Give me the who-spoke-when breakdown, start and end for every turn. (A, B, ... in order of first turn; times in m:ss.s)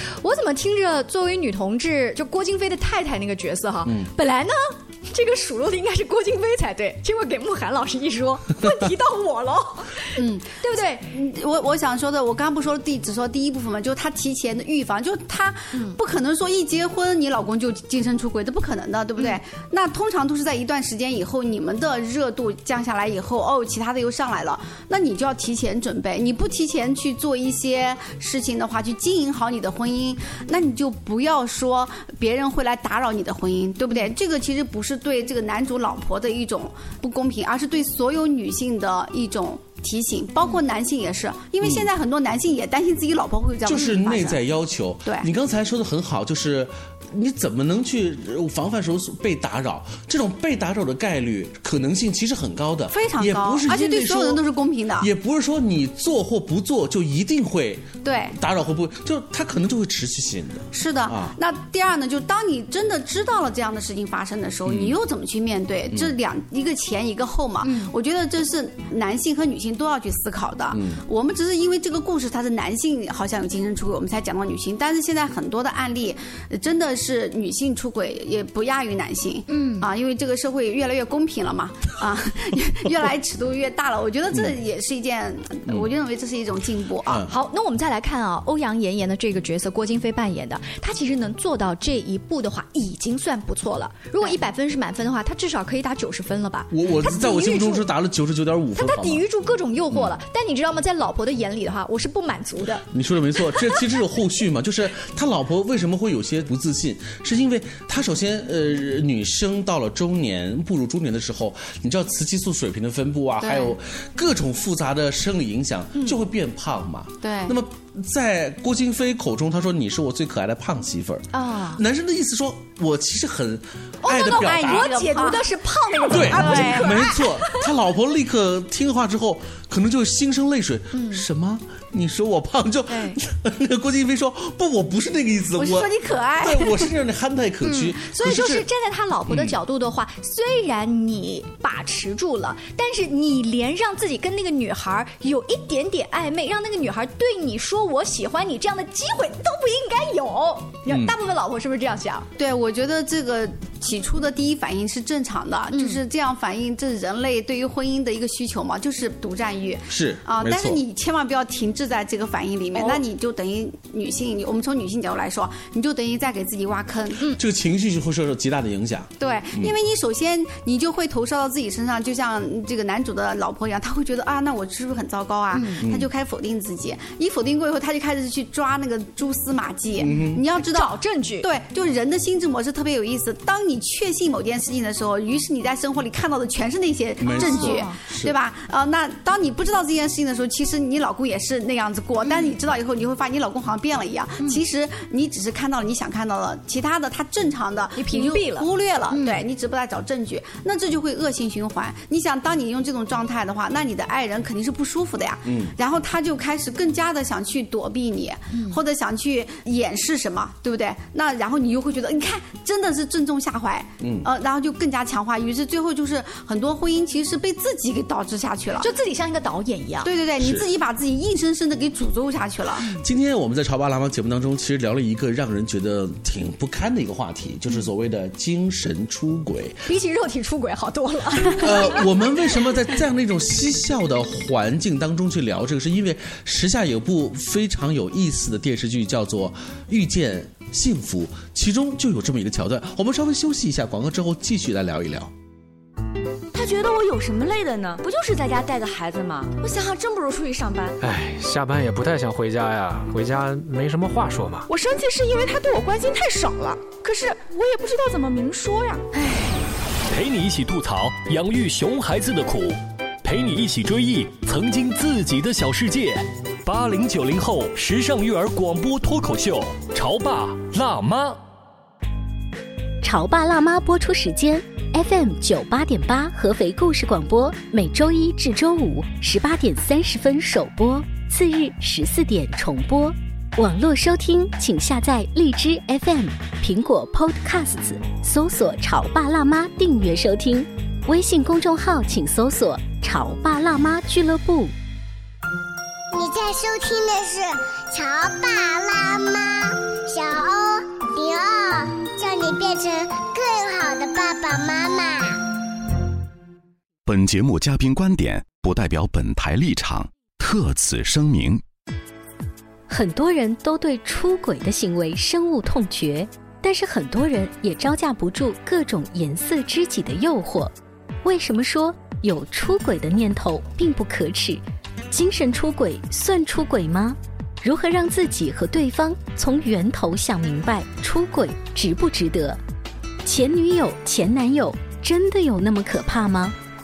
0:00.1-0:11.0 A
0:03.8-0:04.1 B
0:10.2-0:44.4 C
0:43.6-0:54.4 B
0:52.9-0:55.1 C
0:55.0-1:01.3 B
0:58.0-0:58.4 C
1:00.7-1:27.2 C
1:04.6-1:04.9 B
1:10.7-1:11.0 B
1:19.5-1:19.9 A
1:27.3-1:37.8 A
1:36.7-1:39.2 B
1:38.7-1:42.8 A
1:42.9-2:04.9 B
1:53.4-1:53.7 C
1:57.2-1:57.6 C
2:01.3-2:01.8 A
2:04.0-2:07.7 A
2:04.2-2:05.4 C
2:06.1-2:18.6 B
2:06.2-2:07.1 C
2:10.9-2:11.2 A
2:12.9-2:13.2 A
2:15.6-2:16.7 A
2:17.6-2:32.3 A
2:19.3-2:19.6 B
2:30.9-2:31.1 B
2:32.4-2:47.3 C
2:35.7-2:36.0 A
2:39.9-2:40.8 B
2:47.3-2:49.7 B
2:49.2-3:38.9 C
2:55.5-2:55.8 A
2:55.8-2:56.1 B
3:00.0-3:00.4 B
3:00.6-3:01.5 A
3:07.2-3:08.3 B
3:07.3-3:08.0 A
3:18.0-3:19.4 A
3:25.4-3:25.7 B
3:28.5-3:28.8 A
3:34.0-3:34.3 B
3:38.8-3:40.1 A
3:40.0-3:42.9 C
3:40.4-3:40.7 B
3:42.9-3:49.8 B
3:49.9-3:52.1 A
3:51.6-4:05.3 B
4:06.5-4:11.0 D
4:11.0-4:14.7 E
4:14.7-4:19.2 D
4:20.1-4:31.4 F
4:33.0-4:54.7 G
4:56.1-5:05.4 H
5:07.0-5:11.6 I
5:12.9-5:32.6 G
5:33.2-5:36.6 G